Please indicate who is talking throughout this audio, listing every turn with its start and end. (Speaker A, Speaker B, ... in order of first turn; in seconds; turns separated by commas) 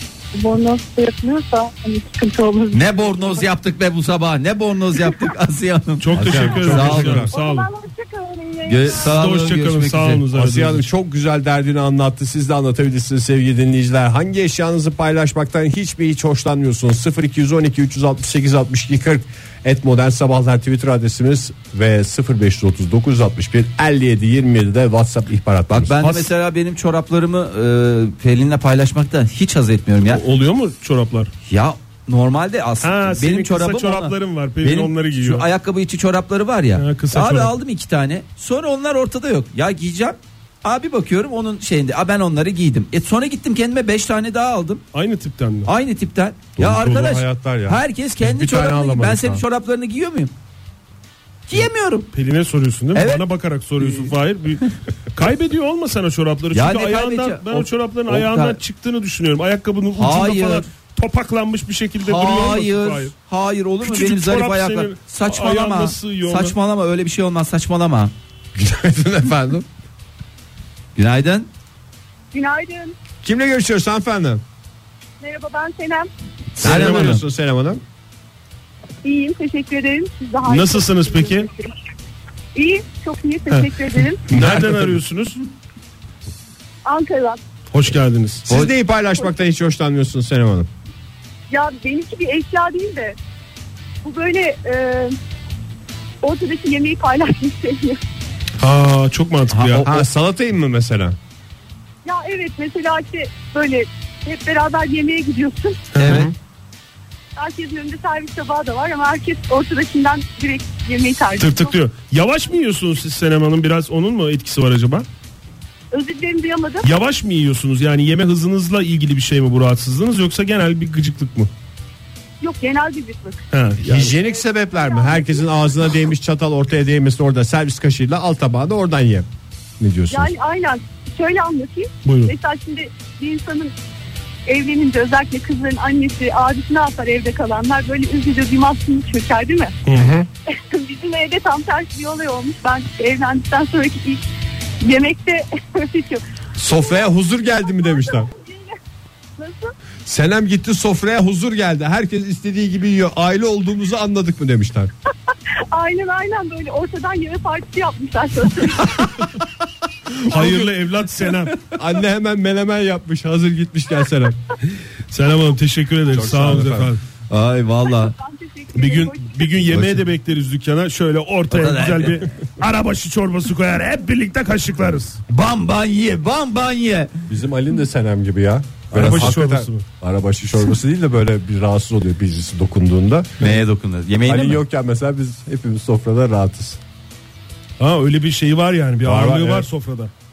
Speaker A: 0.3-3.5, Speaker B: 2.7-7.3, Speaker C: 6.0-7.7, Speaker D: 6.1-7.3, Speaker A: 7.2-9.1, Speaker B: 8.7-10.2, Speaker C: 8.9-10.8, Speaker D: 10.3-26.2, Speaker B: 25.7-30.2, Speaker C: 30.1-31.3, Speaker B: 31.5-44.8, Speaker C: 32.8-35.5, Speaker C: 36.8-37.5, Speaker C: 44.9-45.7, Speaker B: 45.7-50.3, Speaker D: 46.6-49.4, Speaker B: 51.5-52.1, Speaker C: 52.1-63.1, Speaker B: 53.0-53.2, Speaker B: 53.8-54.1, Speaker B: 56.5-58.6, Speaker B: 60.0-60.7, Speaker B: 62.0-68.1, Speaker C: 63.8-66.6, Speaker D: 68.5-69.7, Speaker B: 71.0-71.5, Speaker A: 72.3-73.0, Speaker D: 73.2-74.4, Speaker A: 75.2-76.1, Speaker B: 76.6-77.2, Speaker D: 76.6-77.8, Speaker C: 76.6-77.2, Speaker A: 79.0-81.7, Speaker C: 80.5-81.5, Speaker A: 82.5-84.2, Speaker C: 83.5-85.4, Speaker D: 84.3-84.9, Speaker A: 86.8-87.4, Speaker C: 87.7-88.5, Speaker D: 88.5-90.7, Speaker A: 91.5-93.2, Speaker A: 94.0-95.2, Speaker A: 96.2-98.0, Speaker C: 98.6-99.9, Speaker B: 99.5-100.1, Speaker D: 99.8-101.2, Speaker A: 102.0-105.9, Speaker C: 105.9-106.3, Speaker B: 106.0-106.3, Speaker D: 106.0-106.3, Speaker A: 107.4-111.8, Speaker C: 111.4-115.1, Speaker A: 115.9-117.0, Speaker C: 116.8-121.5, Speaker A: 122.4-123.4, Speaker C: 123.5-124.2, Speaker D: 123.8-129.3, Speaker A: 124.2-125.5, Speaker D: 129.8-130.3, Speaker A: 130.1-133.7, Speaker C: 132.1-132.3, Speaker A: 134.5-139.8, Speaker C: 139.9-140.1, Speaker D: 139.9-140.3, Speaker A: 140.5-144.3, Speaker A: 144.8-146.2, Speaker D: 146.6-148.3, Speaker A: 148.2-148.7, Speaker A: 149.4-149.7, Speaker D: 150.1-154.9, Speaker A: 155.7-159.2, Speaker C: 160.2-161.6, Speaker D: 160.3-160.7, Speaker D: 161.8-164.4, Speaker C: 165.1-167.0, Speaker D: 166.1-166.9, Speaker B: 167.3-168.2, Speaker A: 168.1-169.7, Speaker C: 168.7-175.2, Speaker B: 169.7-170.0, Speaker B: 171.5-172.2, Speaker B: 175.3-177.1, Speaker D: 177.3-183.3, Speaker B: 178.9-179.3, Speaker C: 178.9-179.9, Speaker B: 183.4-184.6, Speaker D: 184.3-186.8, Speaker C: 187.8-190.1, Speaker D: 189.0-189.7